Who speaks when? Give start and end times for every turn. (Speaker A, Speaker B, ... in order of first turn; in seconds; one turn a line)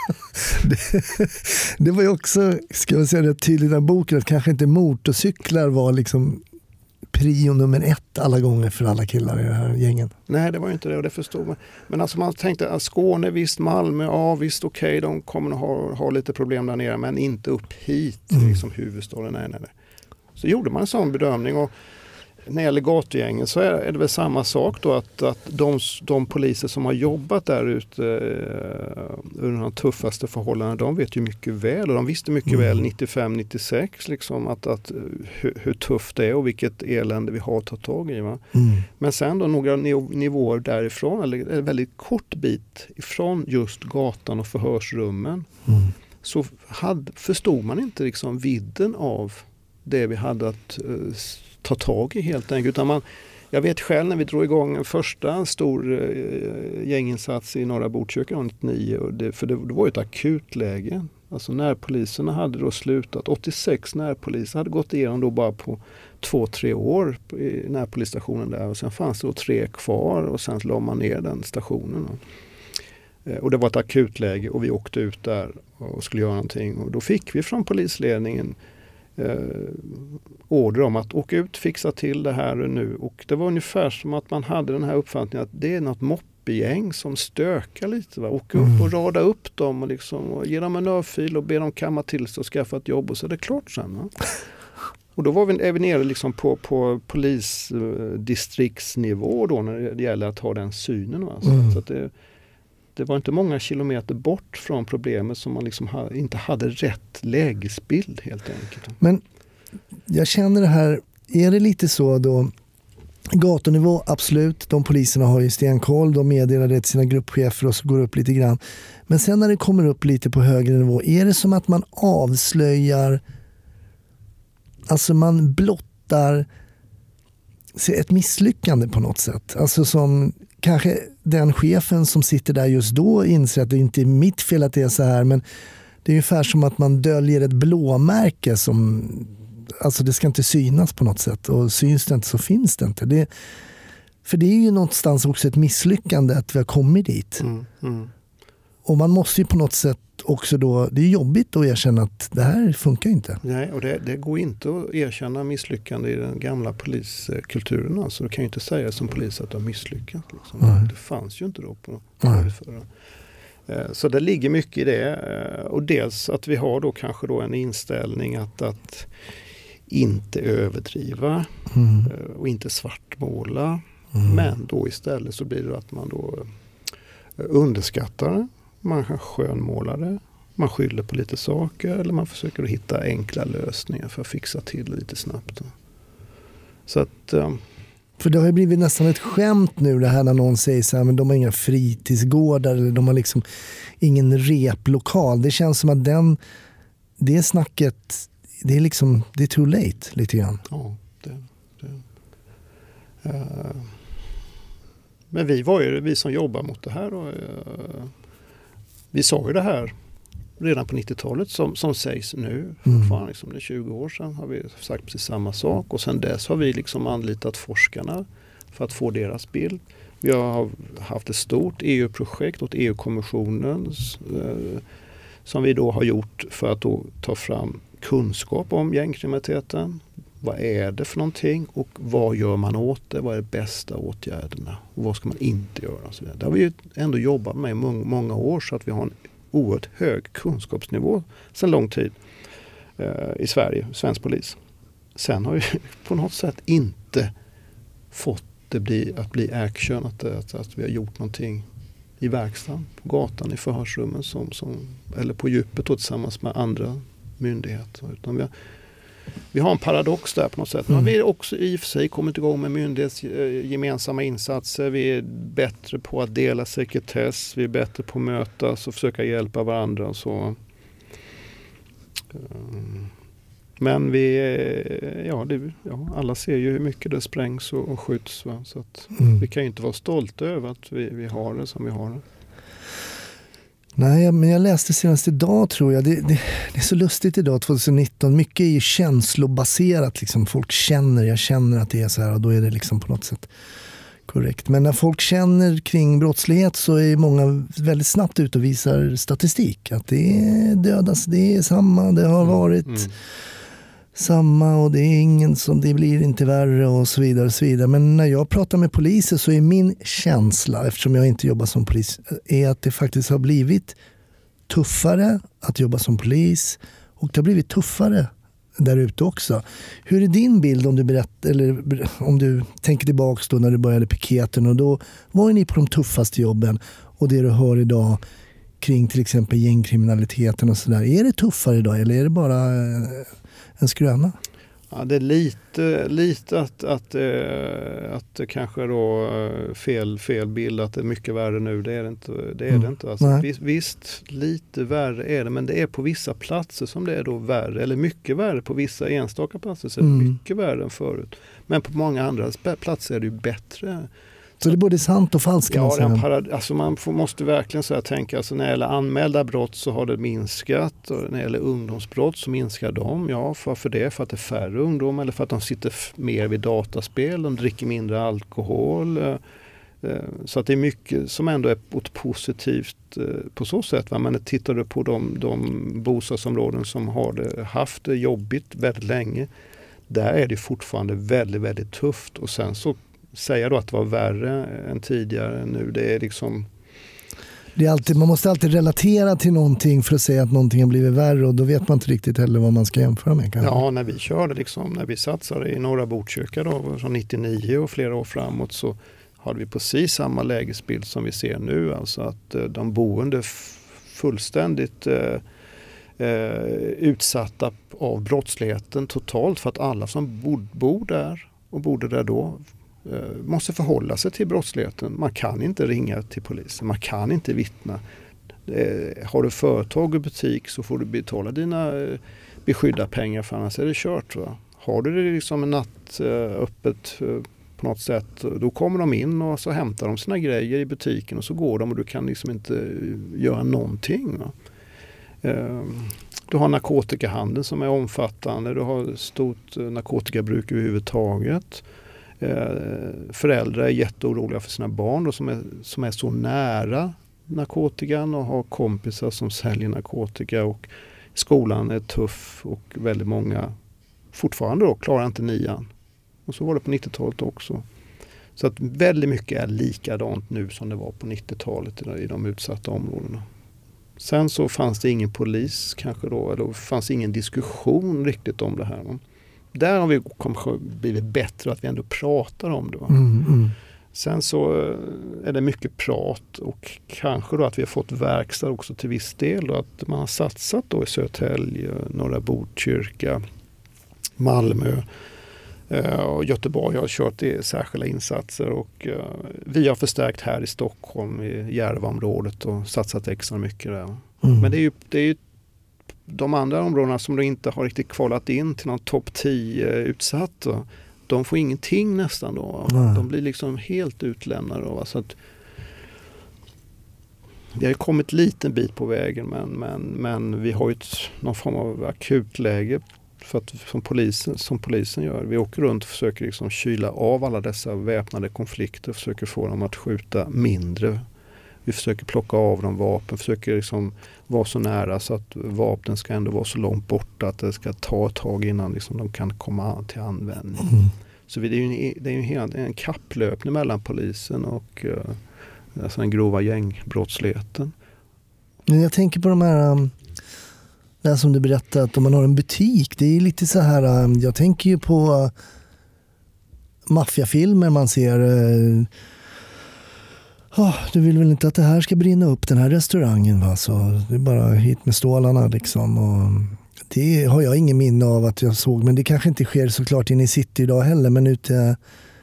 Speaker A: 0.4-6.4
Speaker A: 7.1-10.1
Speaker B: 10.3-19.7
Speaker B: 20.4-21.7
Speaker B: 22.5-38.4
Speaker A: 32.5-32.8
Speaker A: 38.5-38.9
Speaker B: 39.0-45.5
Speaker A: 45.7-45.9
Speaker B: 46.2-72.2
Speaker B: 73.2-78.6
Speaker B: 79.2-94.1
Speaker B: 95.2-102.1
Speaker A: 101.4-101.8
Speaker B: 103.0-109.0
Speaker A: 110.1-112.5
Speaker A: 113.3-123.2
Speaker A: 124.9-126.5
Speaker A: 127.8-135.4
Speaker A: 136.0-143.3
Speaker A: 144.2-147.4
Speaker B: 147.4-148.1
Speaker A: 148.8-153.4
Speaker B: 153.4-162.9
Speaker B: 163.7-169.1
Speaker B: 169.9-176.5
Speaker A: 171.7-172.1
Speaker B: 177.4-185.7
Speaker B: 186.9-187.6
Speaker A: 188.2-193.4
Speaker A: 194.0-196.4
Speaker A: 197.2-200.6
Speaker B: 200.7-202.0
Speaker B: 203.2-203.9
Speaker B: 205.3-208.1
Speaker B: 209.1-209.9
Speaker B: 210.6-224.8
Speaker A: 212.9-213.1
Speaker B: 225.4-242.2
Speaker B: 243.0-244.6
Speaker B: 245.2-247.3
Speaker B: 248.1-251.7
Speaker B: 252.2-258.5
Speaker B: 259.5-270.6
Speaker B: 272.3-273.1
Speaker B: 273.8-282.2
Speaker A: 284.0-293.5
Speaker A: 294.3-303.1
Speaker B: 302.4-303.1
Speaker A: 304.1-314.0
Speaker A: 314.7-328.2
Speaker A: 328.8-334.4
Speaker B: 334.9-354.1
Speaker A: 342.7-343.4
Speaker A: 350.0-350.4
Speaker A: 354.6-356.2
Speaker B: 355.7-369.4
Speaker B: 370.0-379.5
Speaker B: 380.1-386.7
Speaker A: 387.8-393.8
Speaker B: 393.6-405.4
Speaker B: 406.2-418.0
Speaker B: 418.7-434.5
Speaker B: 435.4-441.8
Speaker B: 442.4-453.7
Speaker B: 454.3-455.9
Speaker B: 456.5-457.9
Speaker B: 458.6-463.4
Speaker B: 464.2-469.2
Speaker B: 469.7-473.2
Speaker A: 473.1-473.8
Speaker B: 474.1-483.4
Speaker B: 484.4-485.1
Speaker B: 485.9-495.4
Speaker A: 494.4-494.7
Speaker B: 496.3-505.4
Speaker A: 502.9-503.2
Speaker B: 507.8-521.2
Speaker B: 521.9-530.9
Speaker B: 531.5-535.4
Speaker B: 536.0-537.9
Speaker A: 538.9-540.1
Speaker A: 541.2-545.5
Speaker A: 547.1-549.1
Speaker A: 550.7-562.0